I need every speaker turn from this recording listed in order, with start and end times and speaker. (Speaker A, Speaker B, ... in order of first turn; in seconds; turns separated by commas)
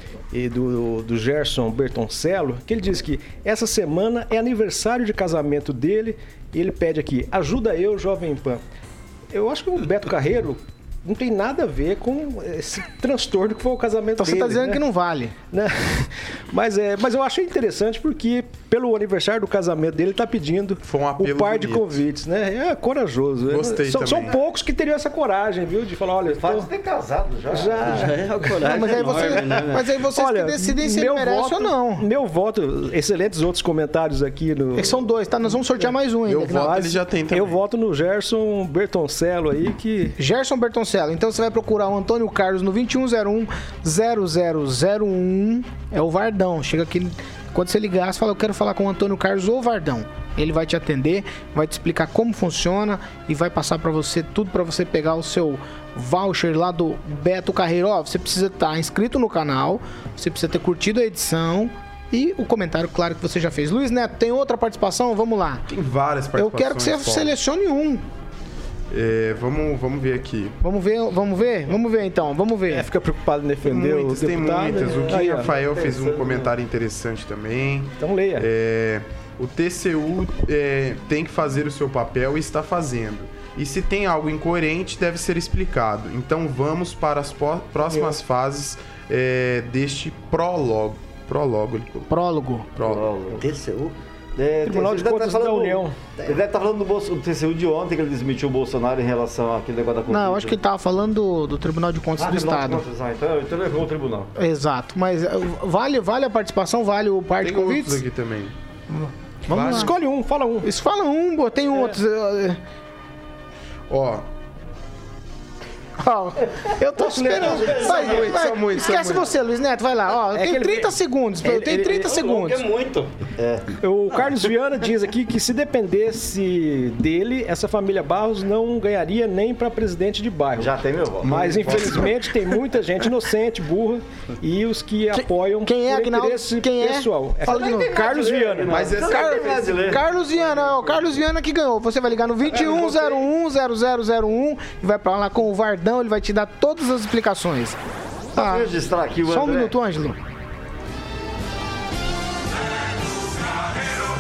Speaker A: 0.3-8.6, Speaker A: 9.3-14.8, Speaker B: 14.2-15.3, Speaker A: 15.5-26.7, Speaker C: 20.9-22.0, Speaker C: 23.4-24.4, Speaker D: 26.2-28.2, Speaker A: 27.5-28.6, Speaker E: 27.8-29.9, Speaker B: 28.6-32.0, Speaker A: 29.1-35.1, Speaker B: 34.7-36.8, Speaker C: 36.3-37.6, Speaker A: 36.5-40.2, Speaker B: 40.2-65.7, Speaker C: 65.7-67.4, Speaker B: 66.4-68.0, Speaker C: 68.9-70.5, Speaker B: 70.6-72.9, Speaker A: 72.7-75.5, Speaker C: 73.6-92.1, Speaker D: 74.7-76.5, Speaker A: 78.0-78.5, Speaker A: 87.8-88.2, Speaker B: 92.1-92.7, Speaker C: 92.7-93.0, Speaker D: 92.8-93.5, Speaker E: 93.3-94.0, Speaker D: 94.4-100.6, Speaker A: 94.6-96.0, Speaker E: 96.1-96.4, Speaker B: 100.1-102.8, Speaker D: 102.2-104.3, Speaker B: 104.4-108.0, Speaker C: 107.4-108.5, Speaker B: 108.9-109.9, Speaker C: 109.5-109.9, Speaker A: 109.5-110.7, Speaker B: 110.6-112.6, Speaker C: 113.9-114.2, Speaker B: 116.0-122.6, Speaker A: 117.0-118.1, Speaker C: 117.5-119.3, Speaker D: 117.6-118.1, Speaker A: 120.3-120.9, Speaker E: 121.4-123.2, Speaker D: 123.4-123.7, Speaker A: 123.8-138.9, Speaker D: 130.6-132.1, Speaker C: 131.2-132.1, Speaker B: 135.1-137.9, Speaker D: 137.4-140.1, Speaker C: 138.7-139.9, Speaker B: 139.0-147.8, Speaker A: 142.6-143.1, Speaker B: 148.3-148.7, Speaker D: 148.3-149.8, Speaker B: 149.2-150.2